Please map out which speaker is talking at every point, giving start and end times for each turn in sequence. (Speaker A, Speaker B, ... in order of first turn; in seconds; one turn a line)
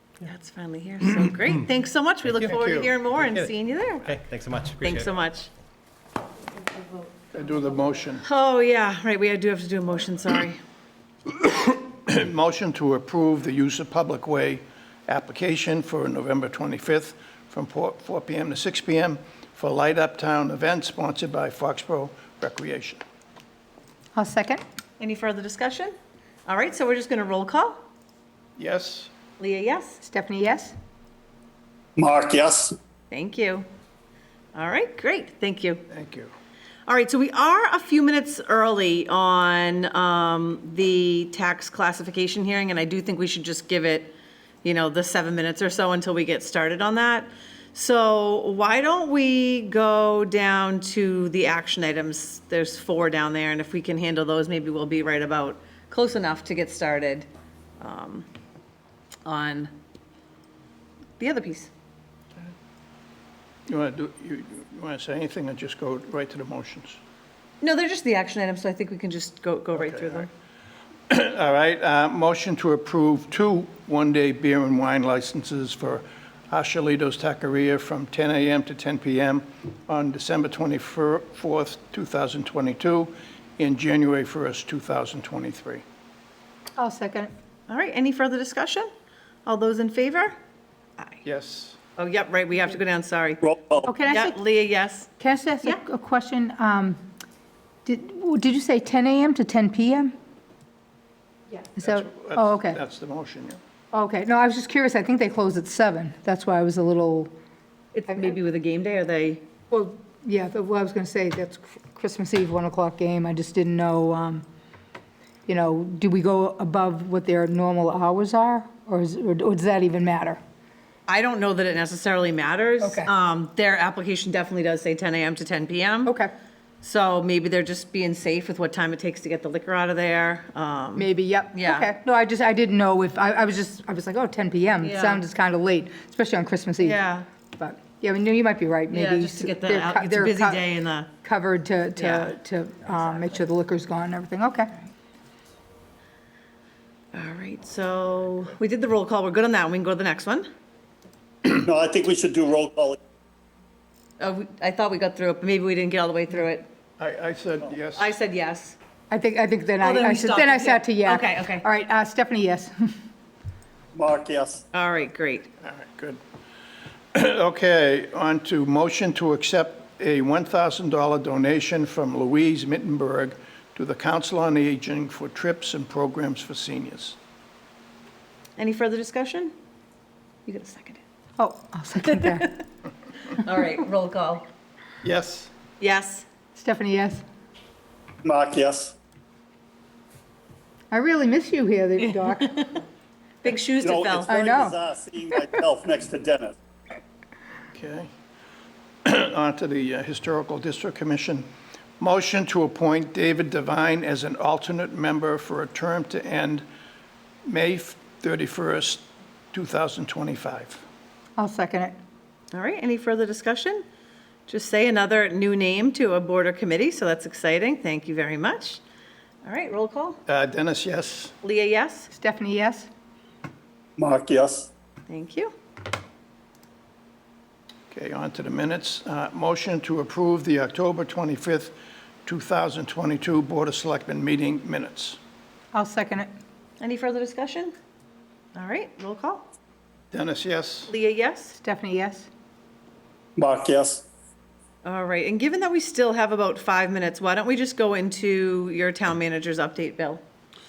Speaker A: 0.2-4.1
Speaker B: 2.2-2.6
Speaker C: 2.5-2.9
Speaker B: 3.2-5.2
Speaker A: 4.8-5.5
Speaker C: 7.3-8.2
Speaker A: 8.2-10.6
Speaker C: 11.3-23.0
Speaker D: 24.1-24.6
Speaker A: 25.0-25.9
Speaker A: 26.5-27.8
Speaker C: 28.6-29.1
Speaker A: 29.4-30.0
Speaker D: 30.0-30.7
Speaker E: 32.0-32.8
Speaker A: 33.1-33.7
Speaker A: 34.5-35.8
Speaker C: 35.9-36.3
Speaker A: 36.9-57.3
Speaker A: 57.8-58.3
Speaker A: 59.2-59.7
Speaker A: 61.2-61.7
Speaker C: 63.7-67.0
Speaker A: 67.6-70.3
Speaker C: 69.8-70.3
Speaker C: 71.1-85.8
Speaker D: 86.8-87.3
Speaker A: 87.7-88.9
Speaker A: 89.5-90.4
Speaker C: 91.2-91.8
Speaker A: 92.0-93.5
Speaker E: 93.4-93.9
Speaker D: 93.8-94.4
Speaker A: 94.0-95.1
Speaker D: 95.2-97.0
Speaker D: 97.9-100.1
Speaker D: 101.6-102.8
Speaker C: 101.8-103.6
Speaker D: 103.9-107.3
Speaker A: 107.9-109.4
Speaker D: 108.1-108.3
Speaker D: 109.7-114.5
Speaker D: 115.5-120.4
Speaker A: 121.1-126.2
Speaker D: 122.8-123.1
Speaker D: 126.1-126.3
Speaker A: 126.8-131.9
Speaker D: 131.0-137.1
Speaker A: 134.8-135.2
Speaker A: 136.8-137.3
Speaker D: 137.6-140.7
Speaker A: 138.9-141.1
Speaker D: 141.2-144.8
Speaker A: 142.0-142.4
Speaker A: 147.1-150.5
Speaker E: 151.5-153.0
Speaker A: 154.2-156.7
Speaker C: 157.0-158.2
Speaker A: 157.9-158.8
Speaker D: 159.1-162.9
Speaker A: 159.8-161.7
Speaker E: 163.9-164.6
Speaker A: 164.7-165.5
Speaker C: 165.6-166.2
Speaker C: 167.1-177.2
Speaker A: 178.6-179.5
Speaker A: 180.5-181.0
Speaker D: 181.4-182.6
Speaker A: 182.2-182.6
Speaker A: 183.2-184.5
Speaker C: 185.0-185.5
Speaker A: 185.8-186.3
Speaker D: 186.6-187.2
Speaker E: 188.2-188.9
Speaker D: 190.9-192.8
Speaker A: 192.3-192.8
Speaker A: 193.4-194.3
Speaker E: 193.8-196.5
Speaker D: 194.2-194.8
Speaker D: 195.3-195.6
Speaker C: 197.8-198.1
Speaker C: 199.1-201.5
Speaker C: 202.0-206.7
Speaker C: 207.4-210.8
Speaker D: 211.4-211.9
Speaker A: 212.5-213.8
Speaker A: 214.5-218.8
Speaker A: 219.4-220.2
Speaker C: 220.3-221.3
Speaker A: 221.4-222.1
Speaker D: 222.1-222.9
Speaker E: 224.0-224.7
Speaker A: 225.1-225.5
Speaker C: 227.9-235.2
Speaker D: 235.7-236.3
Speaker A: 236.8-237.7
Speaker A: 238.6-239.4
Speaker C: 240.1-240.9
Speaker A: 240.9-241.6
Speaker D: 241.6-242.3
Speaker E: 243.4-244.1
Speaker A: 244.8-250.2